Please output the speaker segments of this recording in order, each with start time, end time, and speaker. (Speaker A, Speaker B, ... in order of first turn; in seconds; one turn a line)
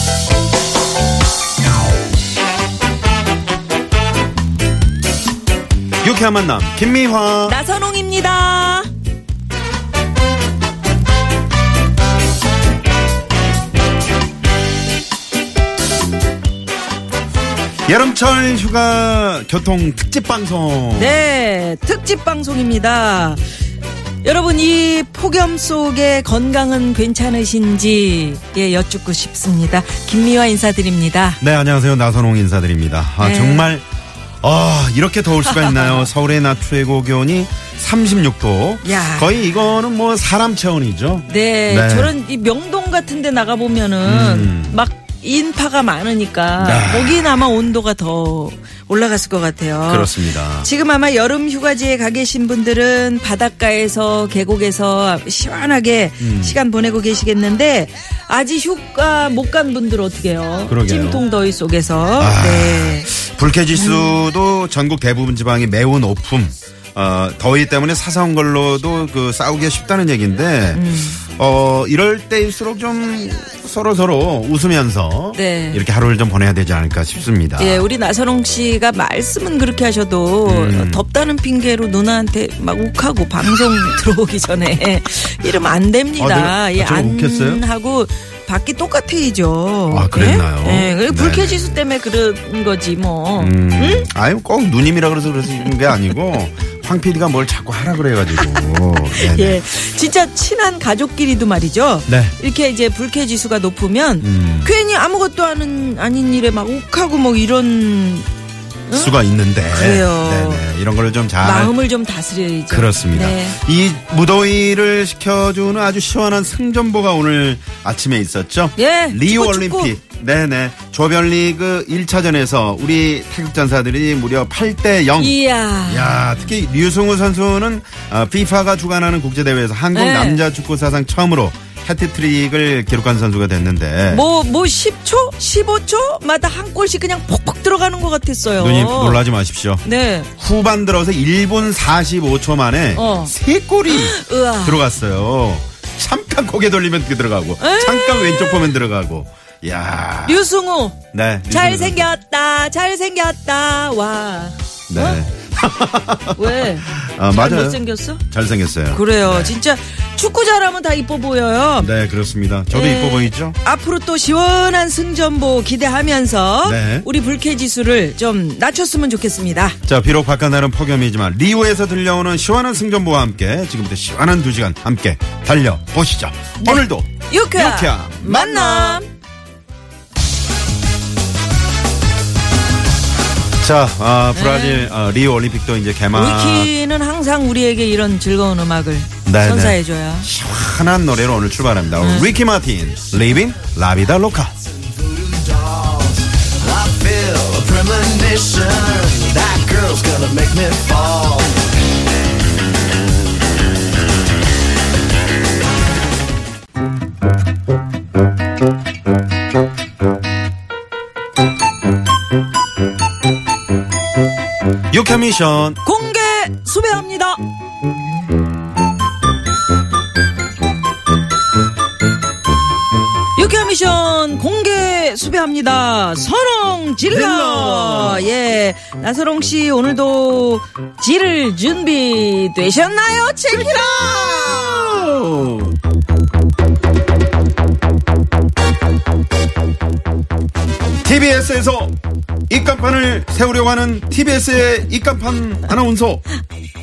Speaker A: 6.0-7.6
Speaker B: 7.4-8.9
Speaker A: 17.9-21.2
Speaker B: 20.9-23.4
Speaker B: 24.2-31.4
Speaker A: 31.4-33.8
Speaker B: 33.2-33.7
Speaker A: 34.4-42.1
Speaker B: 35.4-36.1
Speaker B: 38.8-39.3
Speaker B: 41.3-63.1
Speaker A: 44.0-44.8
Speaker A: 46.6-47.4
Speaker A: 49.9-50.7
Speaker A: 56.2-56.6
Speaker A: 60.7-61.2
Speaker A: 62.1-77.8
Speaker B: 63.7-64.2
Speaker B: 70.7-71.2
Speaker B: 75.3-75.8
Speaker B: 77.6-94.1
Speaker A: 80.4-81.0
Speaker A: 86.2-87.6
Speaker A: 89.9-91.7
Speaker A: 93.4-99.6
Speaker B: 98.4-98.7
Speaker B: 99.2-108.3
Speaker A: 102.1-102.3
Speaker A: 104.2-104.7
Speaker B: 108.9-109.1
Speaker A: 108.9-111.7
Speaker B: 109.7-110.6
Speaker B: 111.4-113.6
Speaker A: 112.7-134.2
Speaker B: 118.8-120.0
Speaker B: 125.2-126.2
Speaker B: 129.9-130.4
Speaker B: 134.1-139.2
Speaker A: 138.6-139.8
Speaker B: 139.8-140.3
Speaker A: 140.4-150.4
Speaker B: 142.9-143.3
Speaker B: 143.9-144.8
Speaker B: 147.6-148.7
Speaker B: 150.2-155.2
Speaker A: 151.1-152.1
Speaker A: 154.9-159.5
Speaker B: 156.3-158.2
Speaker B: 158.9-161.9
Speaker A: 161.8-163.6
Speaker B: 162.7-169.8
Speaker A: 166.6-167.1
Speaker A: 169.8-179.0
Speaker B: 176.6-179.1
Speaker A: 183.6-186.7
Speaker B: 184.3-184.9
Speaker B: 186.1-190.3
Speaker A: 189.2-194.5
Speaker B: 192.0-192.3
Speaker C: 194.8-201.7
Speaker A: 214.9-215.8
Speaker B: 215.8-217.4
Speaker B: 223.3-234.4
Speaker A: 227.1-228.3
Speaker A: 234.2-235.7
Speaker A: 241.0-241.9
Speaker A: 242.5-246.2